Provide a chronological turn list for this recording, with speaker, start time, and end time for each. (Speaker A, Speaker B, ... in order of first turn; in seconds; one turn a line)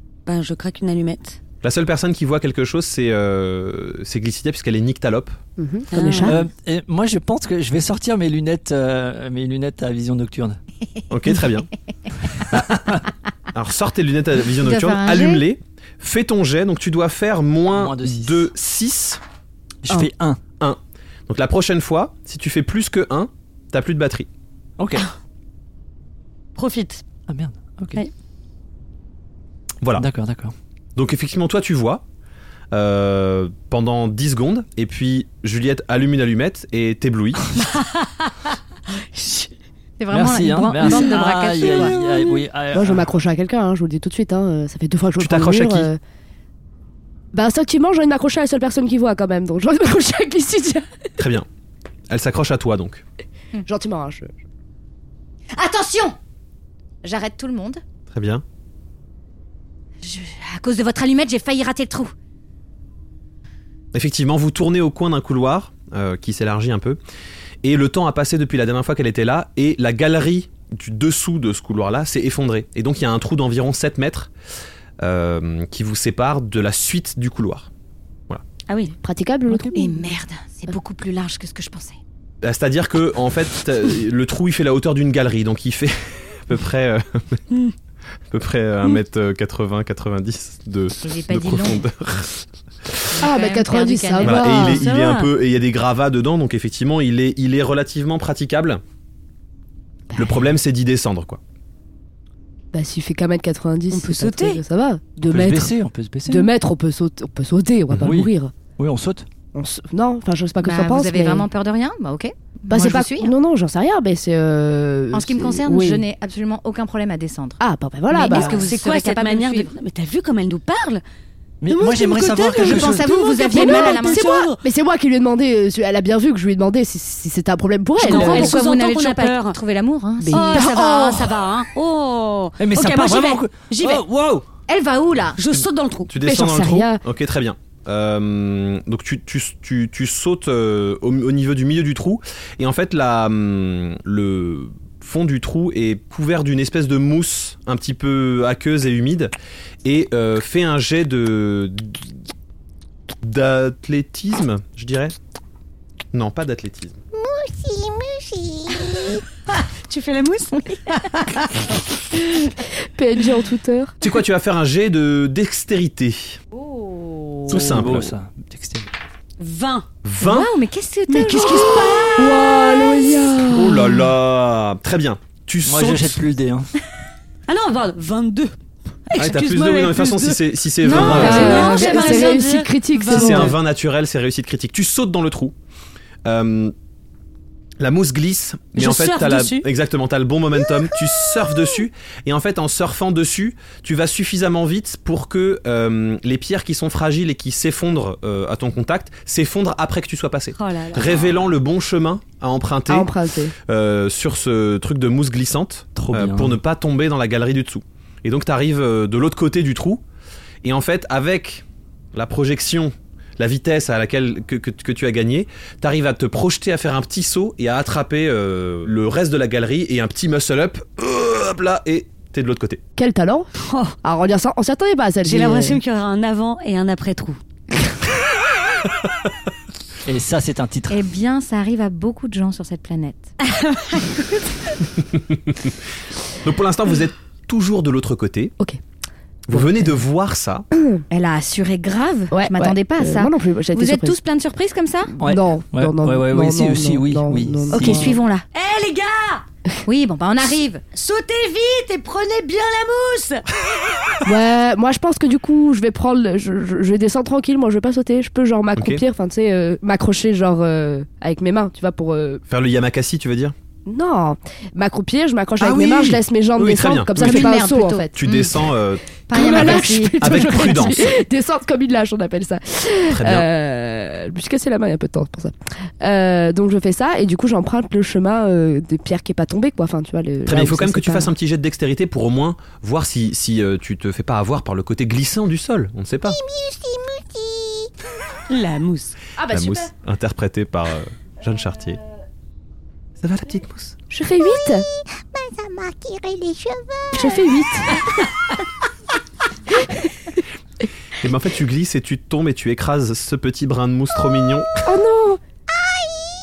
Speaker A: 0.2-1.4
Speaker B: 1.6-5.4
Speaker C: 5.6-6.4
Speaker A: 5.9-6.4
Speaker D: 5.9-6.4
Speaker E: 6.2-10.6
Speaker B: 11.1-11.7
Speaker B: 12.5-13.0
Speaker B: 13.5-19.2
Speaker D: 14.6-15.4
Speaker E: 17.7-18.5
Speaker E: 19.8-20.4
Speaker B: 20.6-24.3
Speaker E: 24.8-25.1
Speaker A: 26.6-27.0
Speaker E: 27.3-28.0
Speaker B: 29.8-30.1
Speaker E: 30.0-30.5
Speaker B: 30.9-32.0
Speaker B: 32.7-37.4
Speaker A: 39.2-39.5
Speaker D: 40.0-42.0
Speaker E: 40.1-43.1
Speaker C: 41.6-42.1
Speaker C: 42.7-46.0
Speaker B: 45.2-45.9
Speaker C: 47.3-50.9
Speaker B: 51.2-51.5
Speaker B: 52.1-53.0
Speaker C: 53.6-54.3
Speaker D: 55.5-56.1
Speaker D: 57.0-57.8
Speaker B: 58.1-58.4
Speaker D: 60.0-62.1
Speaker B: 63.9-67.0
Speaker B: 67.6-74.3
Speaker B: 75.0-77.7
Speaker A: 78.7-78.9
Speaker C: 79.0-80.0
Speaker E: 79.5-79.8
Speaker D: 79.8-82.0
Speaker B: 82.4-87.4
Speaker B: 88.3-92.9
Speaker D: 91.0-91.8
Speaker D: 93.1-94.5
Speaker C: 93.2-94.8
Speaker B: 94.2-98.8
Speaker A: 94.7-95.3
Speaker B: 100.2-101.4
Speaker C: 102.7-105.7
Speaker A: 103.9-104.6
Speaker E: 105.2-106.5
Speaker C: 106.2-108.5
Speaker E: 108.0-109.3
Speaker C: 109.5-111.5
Speaker D: 110.6-113.3
Speaker C: 112.7-116.0
Speaker D: 115.1-117.6
Speaker C: 117.6-118.6
Speaker D: 118.1-119.7
Speaker A: 118.2-121.0
Speaker E: 121.6-123.2
Speaker A: 121.7-124.6
Speaker D: 122.5-124.5
Speaker C: 123.5-128.6
Speaker D: 128.0-131.4
Speaker A: 128.0-129.6
Speaker C: 130.2-130.7
Speaker A: 130.3-134.0
Speaker E: 132.6-134.4
Speaker D: 134.7-135.4
Speaker A: 135.4-136.1
Speaker B: 136.1-149.3
Speaker C: 136.2-137.0
Speaker B: 149.8-152.1
Speaker B: 153.2-155.2
Speaker B: 156.1-157.0
Speaker F: 157.2-158.6
Speaker A: 158.8-161.6
Speaker C: 162.8-163.9
Speaker B: 164.0-166.4
Speaker D: 166.5-167.7
Speaker B: 167.5-168.1
Speaker E: 167.5-168.9
Speaker A: 169.4-169.9
Speaker B: 170.0-170.5
Speaker D: 170.2-172.1
Speaker A: 171.1-172.6
Speaker C: 172.2-174.1
Speaker B: 173.5-176.2
Speaker E: 175.6-176.7
Speaker A: 177.5-178.6
Speaker A: 179.1-183.4
Speaker B: 179.2-181.7
Speaker D: 180.8-182.4
Speaker E: 180.9-181.7
Speaker C: 181.1-183.6
Speaker B: 183.1-185.5
Speaker B: 186.2-186.7
Speaker B: 187.8-203.1
Speaker A: 188.8-189.7
Speaker A: 200.6-201.4
Speaker C: 202.9-203.5
Speaker B: 203.7-210.0
Speaker E: 205.9-206.6
Speaker B: 210.6-222.8
Speaker C: 223.0-223.5
Speaker A: 223.6-223.9
Speaker C: 224.0-225.8
Speaker A: 225.2-227.4
Speaker E: 230.1-231.0
Speaker D: 230.9-233.3
Speaker B: 235.1-235.8
Speaker B: 236.4-238.5
Speaker B: 239.5-240.7
Speaker C: 240.7-241.0
Speaker D: 241.1-245.1
Speaker C: 242.3-244.2
Speaker C: 245.2-248.1
Speaker E: 245.2-248.2
Speaker D: 247.7-248.4
Speaker A: 248.5-249.4
Speaker D: 249.8-250.8
Speaker A: 250.9-253.4
Speaker C: 254.2-262.4
Speaker B: 258.8-259.0
Speaker B: 262.5-263.5
Speaker C: 263.9-268.1
Speaker B: 265.6-267.6
Speaker D: 267.2-268.7
Speaker B: 268.1-271.1
Speaker D: 269.3-270.9
Speaker C: 269.3-281.3
Speaker B: 273.1-273.4
Speaker B: 280.4-286.4
Speaker F: 286.4-287.9
Speaker A: 288.5-289.2
Speaker C: 289.4-289.9
Speaker B: 289.5-292.0
Speaker B: 293.2-293.9
Speaker C: 294.1-294.9
Speaker F: 295.3-297.0
Speaker C: 297.1-298.0
Speaker B: 301.2-304.8
Speaker C: 304.8-305.4